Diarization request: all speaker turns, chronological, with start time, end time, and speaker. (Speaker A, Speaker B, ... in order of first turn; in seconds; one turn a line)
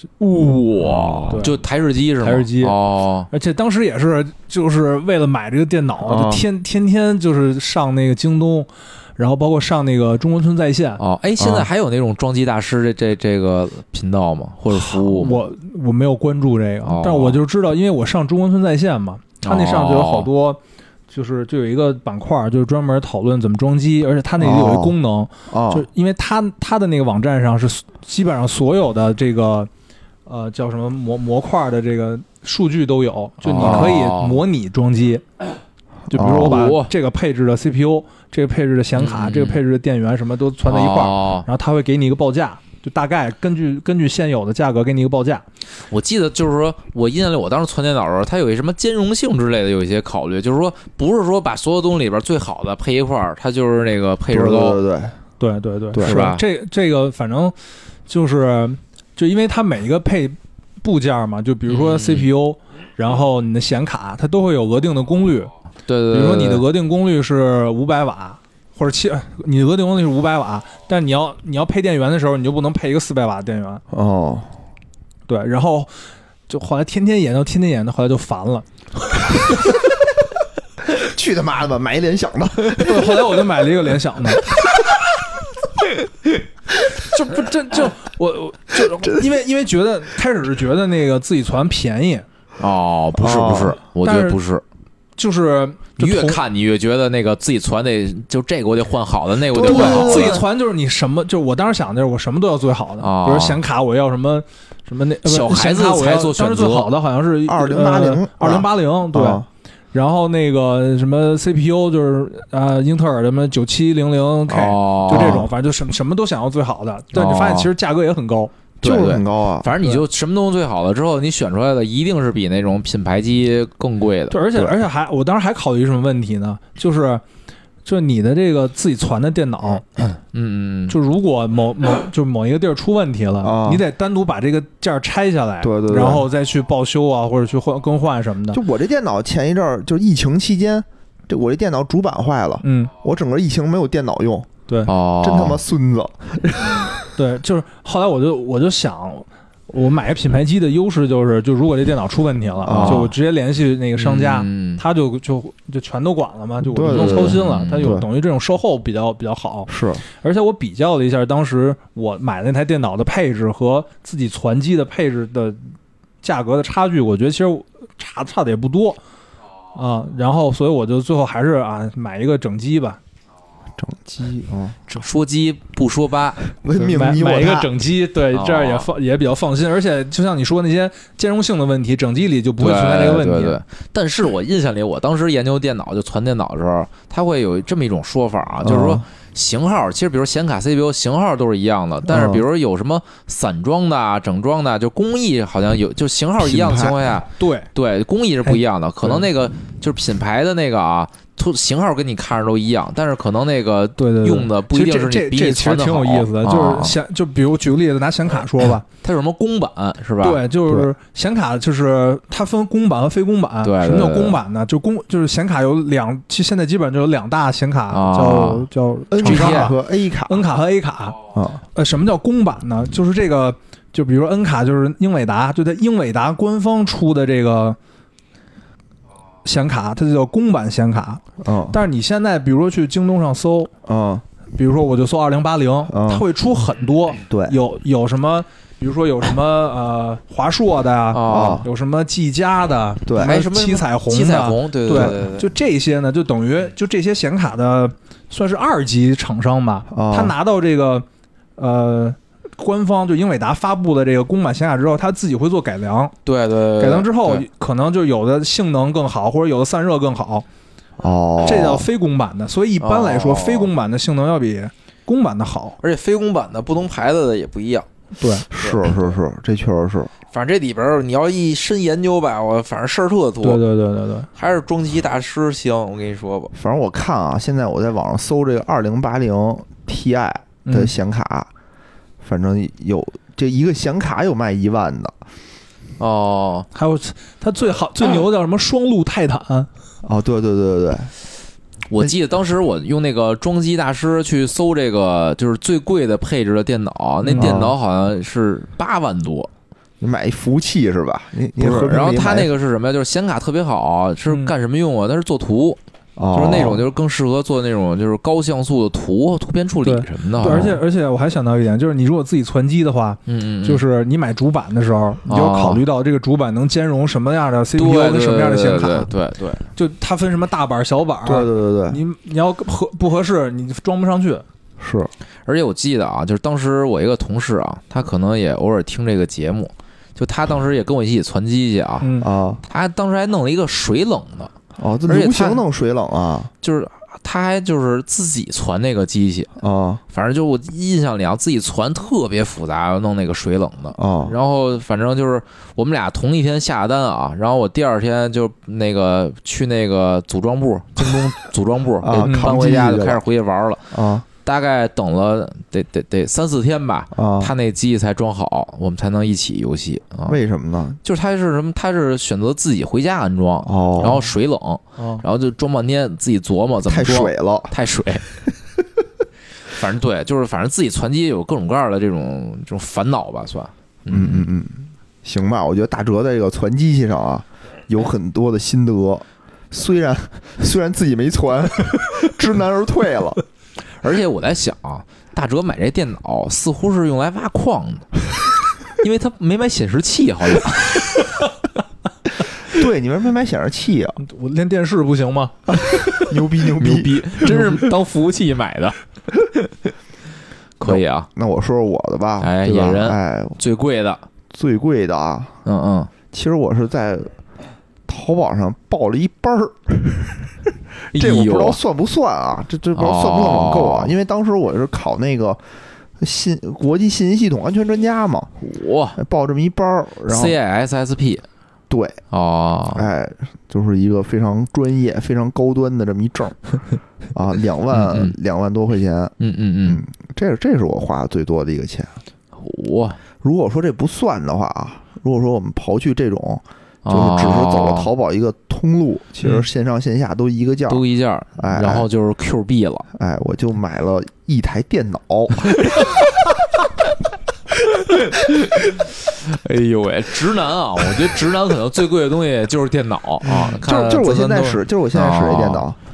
Speaker A: 0.2-3.3
Speaker B: 0.8-1.4
Speaker C: 1.3-1.6
Speaker C: 2.2-2.8
Speaker C: 3.3-11.0
Speaker B: 6.0-6.4
Speaker A: 11.0-15.4
Speaker B: 11.4-11.7
Speaker C: 14.7-29.7
Speaker A: 16.8-17.4
Speaker A: 19.4-20.3
Speaker B: 24.4-25.0
Speaker B: 25.5-25.9
Speaker C: 30.2-35.2
Speaker A: 33.4-34.4
Speaker B: 33.6-34.0
Speaker C: 36.1-45.4
Speaker B: 36.1-36.7
Speaker A: 36.3-36.9
Speaker A: 39.0-39.6
Speaker A: 40.6-41.5
Speaker A: 45.9-54.8
Speaker B: 54.3-55.2
Speaker C: 55.4-57.5
Speaker B: 55.9-56.2
Speaker A: 56.0-56.4
Speaker C: 58.1-65.5
Speaker A: 61.7-62.3
Speaker A: 65.9-66.7
Speaker C: 66.1-73.8
Speaker B: 73.9-74.5
Speaker C: 75.3-75.9
Speaker C: 76.5-79.8
Speaker B: 80.9-83.4
Speaker C: 82.8-84.4
Speaker C: 86.9-92.2
Speaker A: 92.6-94.6
Speaker B: 93.2-93.8
Speaker C: 94.0-94.4
Speaker C: 95.2-96.4
Speaker A: 96.0-100.4
Speaker B: 99.5-100.4
Speaker C: 99.5-118.5
Speaker A: 103.0-103.6
Speaker A: 105.2-106.9
Speaker B: 107.5-109.5
Speaker A: 114.5-115.5
Speaker B: 115.1-115.5
Speaker B: 117.2-117.7
Speaker B: 118.8-119.7
Speaker A: 118.8-124.4
Speaker C: 124.3-127.2
Speaker C: 127.8-129.8
Speaker A: 130.2-131.0
Speaker C: 130.9-138.6
Speaker B: 133.4-133.8
Speaker B: 135.6-136.2
Speaker B: 138.5-144.5
Speaker C: 142.6-142.9
Speaker A: 144.8-145.6
Speaker B: 145.2-147.1
Speaker C: 147.0-165.6
Speaker B: 152.6-153.1
Speaker A: 152.7-153.1
Speaker A: 153.9-154.8
Speaker B: 156.6-158.1
Speaker A: 156.9-157.9
Speaker B: 159.7-160.0
Speaker C: 166.2-169.0
Speaker C: 169.7-173.0
Speaker B: 173.8-174.8
Speaker A: 174.9-176.4
Speaker B: 176.6-177.7
Speaker C: 176.8-183.6
Speaker A: 178.3-178.9
Speaker A: 182.6-207.0
Speaker B: 188.6-189.0
Speaker B: 192.1-192.4
Speaker B: 196.4-197.0
Speaker C: 197.4-197.7
Speaker C: 198.4-199.2
Speaker C: 204.0-208.8
Speaker A: 209.0-210.4
Speaker C: 210.2-221.2
Speaker B: 210.7-210.9
Speaker A: 213.6-214.4
Speaker A: 217.9-218.7
Speaker B: 219.1-220.4
Speaker A: 219.2-219.7
Speaker B: 221.3-221.6
Speaker C: 221.7-227.8
Speaker C: 229.4-233.7
Speaker B: 231.4-231.8
Speaker B: 233.8-234.2
Speaker C: 234.5-251.1
Speaker B: 235.9-236.2
Speaker B: 237.3-237.6
Speaker A: 241.1-241.6
Speaker B: 241.3-241.7
Speaker A: 243.2-245.5
Speaker B: 249.9-250.3
Speaker C: 251.6-256.1
Speaker A: 256.2-257.4
Speaker C: 256.8-260.4
Speaker B: 261.0-261.9
Speaker C: 261.4-265.8
Speaker A: 262.8-263.7
Speaker A: 265.8-267.9
Speaker C: 268.2-268.4
Speaker B: 268.5-270.1
Speaker A: 268.5-269.1
Speaker A: 270.3-273.6
Speaker C: 273.4-274.3
Speaker A: 274.3-276.5
Speaker B: 276.5-281.5
Speaker C: 280.6-280.9
Speaker B: 282.2-285.2
Speaker A: 286.0-286.7
Speaker C: 286.7-289.7
Speaker B: 290.0-291.1
Speaker A: 291.9-299.5
Speaker C: 297.2-297.6
Speaker B: 297.4-297.7
Speaker B: 300.0-302.5
Speaker A: 301.6-305.8
Speaker B: 306.2-306.8
Speaker A: 306.3-310.8
Speaker C: 309.8-319.1
Speaker A: 313.3-313.8
Speaker A: 315.3-315.8
Speaker A: 317.8-319.6
Speaker C: 319.8-324.4
Speaker B: 321.2-322.0
Speaker B: 324.8-325.1
Speaker A: 325.4-332.1
Speaker C: 332.0-332.3
Speaker B: 332.2-332.6
Speaker A: 332.7-334.5
Speaker B: 334.8-336.5
Speaker A: 335.1-335.6
Speaker A: 336.6-339.5
Speaker B: 339.6-340.0
Speaker A: 340.1-360.4
Speaker B: 343.9-344.3
Speaker B: 352.0-353.2
Speaker C: 352.2-352.5
Speaker B: 353.9-354.2
Speaker B: 357.1-357.5
Speaker B: 360.3-361.0
Speaker A: 361.0-368.2
Speaker B: 363.6-364.2
Speaker C: 365.0-365.2
Speaker B: 366.9-367.7
Speaker A: 369.7-374.5
Speaker B: 374.1-383.4
Speaker A: 384.0-388.1
Speaker A: 388.9-391.1
Speaker B: 392.7-394.2
Speaker C: 394.2-395.6
Speaker B: 395.7-397.7
Speaker A: 396.2-399.0
Speaker A: 400.8-401.3
Speaker B: 400.8-403.6
Speaker A: 402.4-404.2
Speaker B: 404.5-405.6
Speaker A: 405.6-406.1
Speaker B: 406.3-407.3
Speaker B: 408.1-415.6
Speaker A: 411.1-411.8
Speaker A: 412.9-414.1
Speaker B: 416.2-418.6
Speaker A: 418.6-419.2
Speaker B: 419.2-420.5
Speaker A: 420.3-421.4
Speaker B: 421.9-422.2
Speaker A: 422.3-423.0
Speaker B: 422.9-426.6
Speaker B: 427.3-429.3
Speaker A: 427.9-428.3
Speaker A: 429.4-430.0
Speaker B: 429.9-432.2
Speaker A: 432.6-433.2
Speaker B: 433.4-441.0
Speaker A: 437.0-438.1
Speaker A: 440.9-443.1
Speaker B: 441.6-442.1
Speaker B: 443.1-445.7
Speaker A: 445.8-446.1
Speaker A: 448.3-455.9
Speaker B: 453.4-456.0